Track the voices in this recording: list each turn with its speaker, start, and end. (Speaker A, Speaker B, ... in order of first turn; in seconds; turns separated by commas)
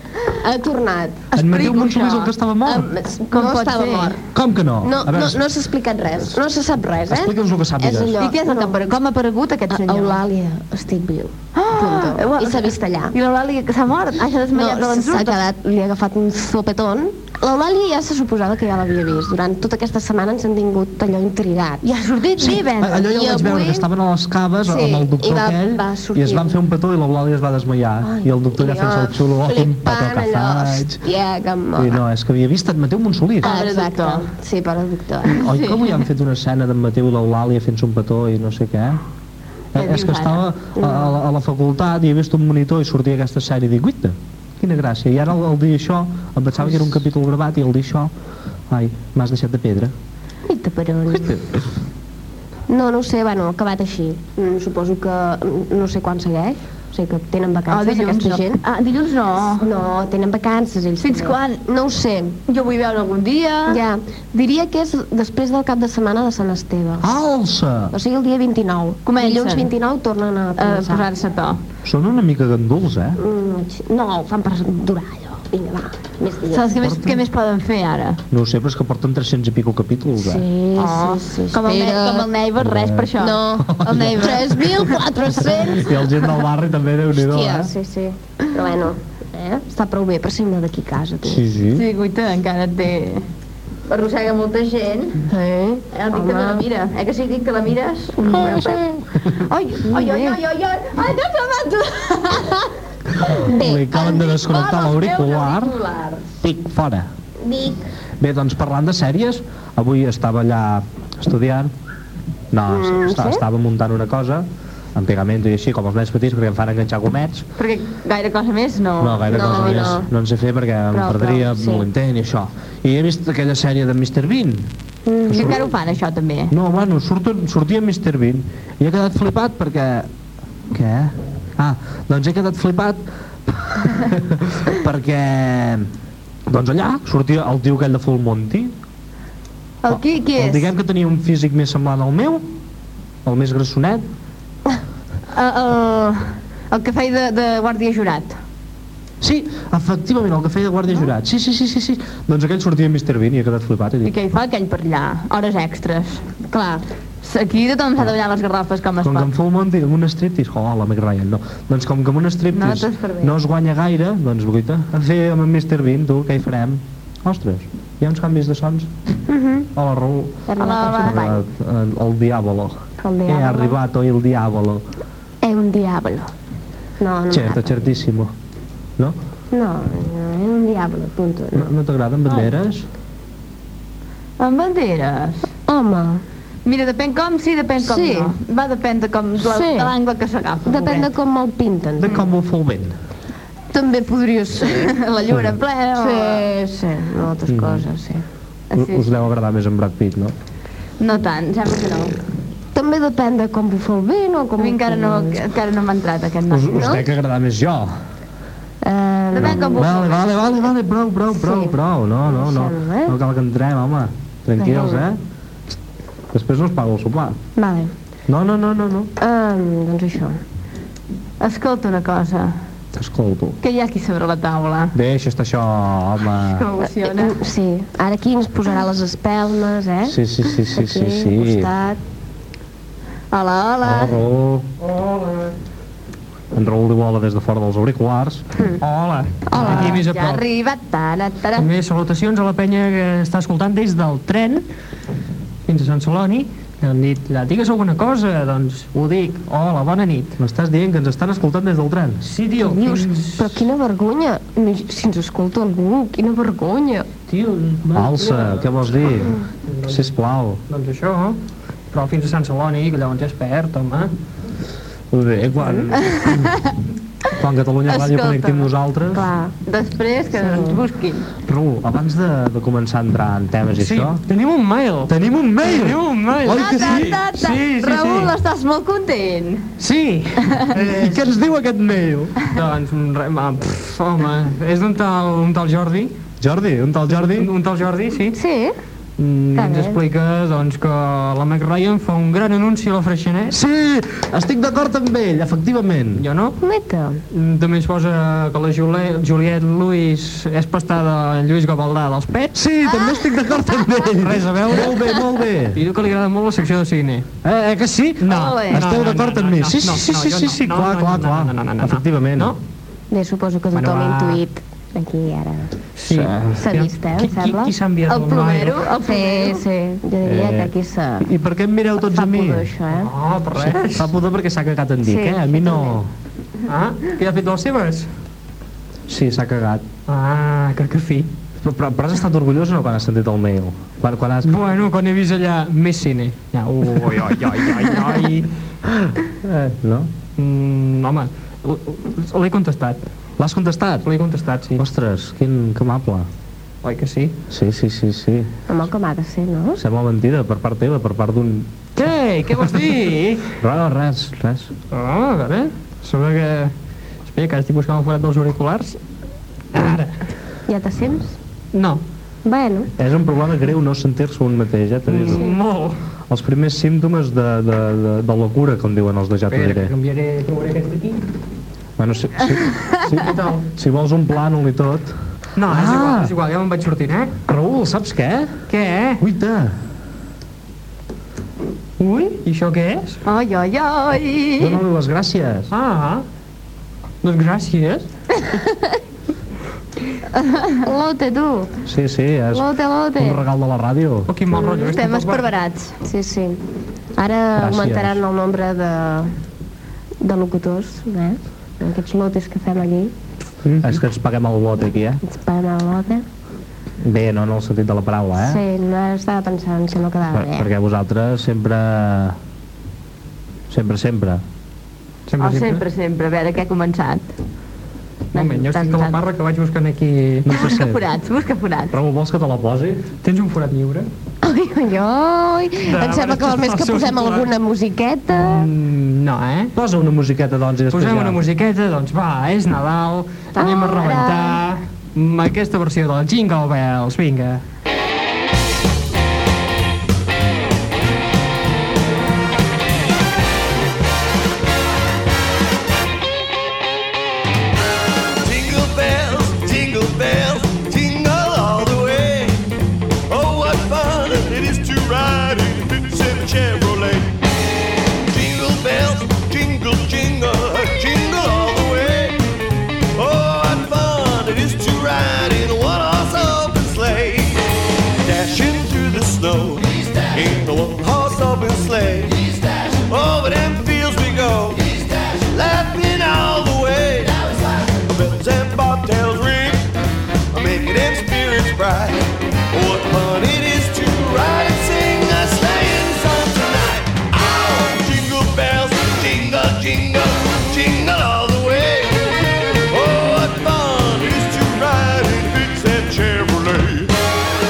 Speaker A: 0.3-1.3, Speaker B: 1.3-2.3, Speaker C: 1.4-2.9, Speaker A: 2.6-4.2, Speaker B: 3.3-4.2, Speaker C: 4.3-5.5, Speaker A: 4.8-9.0, Speaker C: 7.1-8.2, Speaker B: 8.2-10.2, Speaker A: 9.7-13.1, Speaker B: 11.6-15.4, Speaker A: 14.5-21.9, Speaker B: 21.8-23.2, Speaker C: 22.4-31.0, Speaker A: 22.9-23.9, Speaker A: 24.6-26.6, Speaker A: 28.0-32.0, Speaker C: 31.8-33.5, Speaker A: 33.4-35.6, Speaker B: 33.4-34.3, Speaker C: 35.2-39.0, Speaker B: 35.5-35.8, Speaker C: 39.7-48.1, Speaker B: 39.8-40.4, Speaker A: 40.7-41.2, Speaker C: 48.7-49.9, Speaker A: 50.5-51.4, Speaker A: 52.7-58.6, Speaker B: 57.7-59.7, Speaker A: 59.5-62.4, Speaker B: 61.0-61.6, Speaker B: 62.5-63.8, Speaker A: 63.7-67.2, Speaker C: 67.0-67.9, Speaker A: 67.9-71.1, Speaker B: 69.0-69.7, Speaker B: 70.6-71.6, Speaker C: 71.8-73.2, Speaker A: 73.2-76.8, Speaker B: 76.5-78.2, Speaker C: 76.8-77.2, Speaker C: 78.3-80.5, Speaker A: 80.2-82.3, Speaker B: 80.8-85.0, Speaker C: 82.6-84.6, Speaker A: 83.2-86.4, Speaker C: 85.4-87.7, Speaker A: 87.1-91.5, Speaker C: 91.2-91.8, Speaker B: 91.7-93.3, Speaker B: 93.9-95.3, Speaker A: 95.3-96.7, Speaker B: 95.9-98.8, Speaker A: 98.2-99.0, Speaker B: 99.5-102.7, Speaker A: 99.7-100.4, Speaker A: 102.4-102.6, Speaker C: 103.2-105.7, Speaker A: 103.3-104.3, Speaker B: 103.9-106.3, Speaker C: 106.4-107.1, Speaker A: 107.4-107.8, Speaker C: 108.2-111.7, Speaker C: 112.5-117.5, Speaker A: 112.7-113.5, Speaker B: 117.6-120.0, Speaker C: 119.0-124.7, Speaker A: 119.3-120.1, Speaker A: 120.9-121.9, Speaker A: 125.0-125.7, Speaker C: 125.3-125.7, Speaker B: 125.3-126.5, Speaker C: 126.5-130.1, Speaker C: 130.7-135.9, Speaker C: 136.5-138.7, Speaker B: 139.8-140.7, Speaker C: 139.9-142.5, Speaker C: 143.2-144.1, Speaker B: 145.3-148.4, Speaker C: 149.2-154.1, Speaker B: 154.0-156.3, Speaker A: 156.5-156.8, Speaker B: 157.2-159.3, Speaker C: 159.0-168.9, Speaker B: 162.5-163.3, Speaker A: 169.3-169.7, Speaker C: 169.8-174.8, Speaker A: 170.5-171.4, Speaker B: 170.6-171.2, Speaker A: 173.0-173.8, Speaker A: 175.4-176.3, Speaker A: 177.0-178.0, Speaker C: 177.3-178.3, Speaker A: 179.5-181.7, Speaker C: 181.6-182.9, Speaker B: 184.4-185.5, Speaker A: 185.7-186.2, Speaker B: 186.6-191.1, Speaker A: 187.8-188.3, Speaker A: 189.4-189.9, Speaker A: 190.6-192.3, Speaker C: 192.0-192.9, Speaker A: 193.7-194.9, Speaker B: 194.6-196.4, Speaker A: 195.9-198.2, Speaker C: 197.5-197.8, Speaker B: 198.7-199.1, Speaker C: 198.7-200.3, Speaker B: 201.0-202.1, Speaker A: 202.7-205.4, Speaker B: 204.6-207.0, Speaker C: 206.5-208.0, Speaker A: 206.7-207.1, Speaker A: 208.8-209.8, Speaker B: 209.3-210.3, Speaker C: 209.4-215.2, Speaker A: 211.3-213.2, Speaker A: 214.6-215.1, Speaker C: 216.3-217.4, Speaker A: 217.6-217.9, Speaker C: 218.3-219.1, Speaker A: 219.2-220.4, Speaker B: 221.4-222.6, Speaker C: 222.9-223.6, Speaker B: 223.6-224.9, Speaker C: 224.9-226.7, Speaker B: 226.4-227.4, Speaker A: 227.0-232.0, Speaker C: 230.1-231.7, Speaker B: 233.3-234.2, Speaker C: 233.8-234.7, Speaker D: 234.8-235.6, Speaker C: 236.5-238.4, Speaker D: 238.8-240.4, Speaker A: 239.4-240.0, Speaker B: 239.6-241.7, Speaker D: 241.6-244.6, Speaker D: 245.7-250.4, Speaker C: 250.4-252.2, Speaker D: 252.2-253.6, Speaker A: 252.6-257.1, Speaker C: 257.3-260.6, Speaker D: 257.9-258.7, Speaker D: 259.7-260.1, Speaker D: 260.7-261.4, Speaker D: 261.9-264.1, Speaker C: 265.1-266.5, Speaker A: 265.6-265.9, Speaker B: 266.0-266.7, Speaker C: 267.3-269.3, Speaker B: 267.9-268.7, Speaker A: 269.1-269.5, Speaker B: 269.6-271.3, Speaker A: 270.4-270.8, Speaker C: 271.4-274.2, Speaker D: 273.8-278.3, Speaker C: 275.1-277.1, Speaker B: 276.5-279.7, Speaker D: 279.8-286.1, Speaker C: 280.7-282.3, Speaker C: 286.4-287.5, Speaker D: 287.1-288.4, Speaker A: 288.3-288.8, Speaker D: 289.2-293.6, Speaker A: 289.6-290.0, Speaker C: 293.5-296.2, Speaker D: 296.1-296.6, Speaker A: 296.6-297.2, Speaker D: 297.3-302.6, Speaker C: 302.6-305.8, Speaker D: 304.1-305.2, Speaker D: 305.7-307.3, Speaker C: 307.4-312.6, Speaker D: 308.2-312.6, Speaker B: 308.2-308.9, Speaker A: 313.1-315.7, Speaker D: 313.7-314.4, Speaker D: 315.9-318.9, Speaker C: 316.1-316.3, Speaker A: 316.6-317.8, Speaker B: 318.1-319.6, Speaker A: 319.0-321.3, Speaker C: 320.2-322.7, Speaker A: 321.9-323.1, Speaker D: 322.9-324.1, Speaker C: 323.6-326.1, Speaker A: 325.0-326.0, Speaker D: 326.7-328.1, Speaker C: 329.1-329.8, Speaker D: 330.1-331.3, Speaker C: 331.6-334.6, Speaker D: 334.4-338.5, Speaker C: 338.9-340.1, Speaker D: 340.4-343.0, Speaker C: 343.4-344.1, Speaker D: 344.0-344.8, Speaker C: 344.8-346.3, Speaker D: 346.8-347.4, Speaker C: 347.5-348.5, Speaker A: 348.7-349.8, Speaker C: 349.8-351.7, Speaker D: 351.9-353.5, Speaker C: 353.6-354.7, Speaker D: 354.9-356.7, Speaker D: 357.2-359.0, Speaker D: 359.7-360.1, Speaker A: 360.7-361.4, Speaker D: 361.7-362.0, Speaker A: 362.4-362.9, Speaker C: 363.0-365.4, Speaker D: 365.1-365.9, Speaker C: 366.3-369.9, Speaker D: 369.5-371.2, Speaker C: 372.0-376.3, Speaker B: 372.7-373.0, Speaker D: 373.1-373.6, Speaker D: 375.6-377.3, Speaker C: 377.5-378.5, Speaker D: 378.7-379.2, Speaker C: 379.2-379.8, Speaker D: 382.0-383.2, Speaker B: 383.2-384.8, Speaker C: 384.6-385.7, Speaker D: 385.7-386.2, Speaker D: 387.2-388.1, Speaker B: 390.3-390.8, Speaker A: 390.8-391.8, Speaker C: 391.8-394.3, Speaker A: 392.5-393.4, Speaker D: 394.3-395.5, Speaker B: 394.6-395.9, Speaker A: 396.0-396.6, Speaker A: 397.1-399.3, Speaker C: 397.6-398.2, Speaker A: 400.2-403.1, Speaker C: 403.6-405.2, Speaker A: 405.2-406.2, Speaker C: 407.0-408.6, Speaker A: 408.3-410.7, Speaker C: 410.3-412.4, Speaker C: 413.7-414.4, Speaker D: 415.3-415.8, Speaker B: 415.4-417.3, Speaker B: 418.3-419.2, Speaker D: 418.3-420.5, Speaker C: 420.4-421.1, Speaker B: 420.5-421.9, Speaker C: 421.9-423.0, Speaker D: 423.2-424.1, Speaker A: 424.4-428.7, Speaker D: 425.9-427.5, Speaker D: 428.3-429.7, Speaker C: 429.7-431.4, Speaker D: 430.9-437.6, Speaker A: 433.5-434.6, Speaker E: 448.4-452.6, Speaker E: 453.3-457.4, Speaker E: 458.3-462.4, Speaker E: 463.2-467.7, Speaker E: 468.2-479.8, Speaker E: 480.5-492.4, Speaker E: 492.9-497.1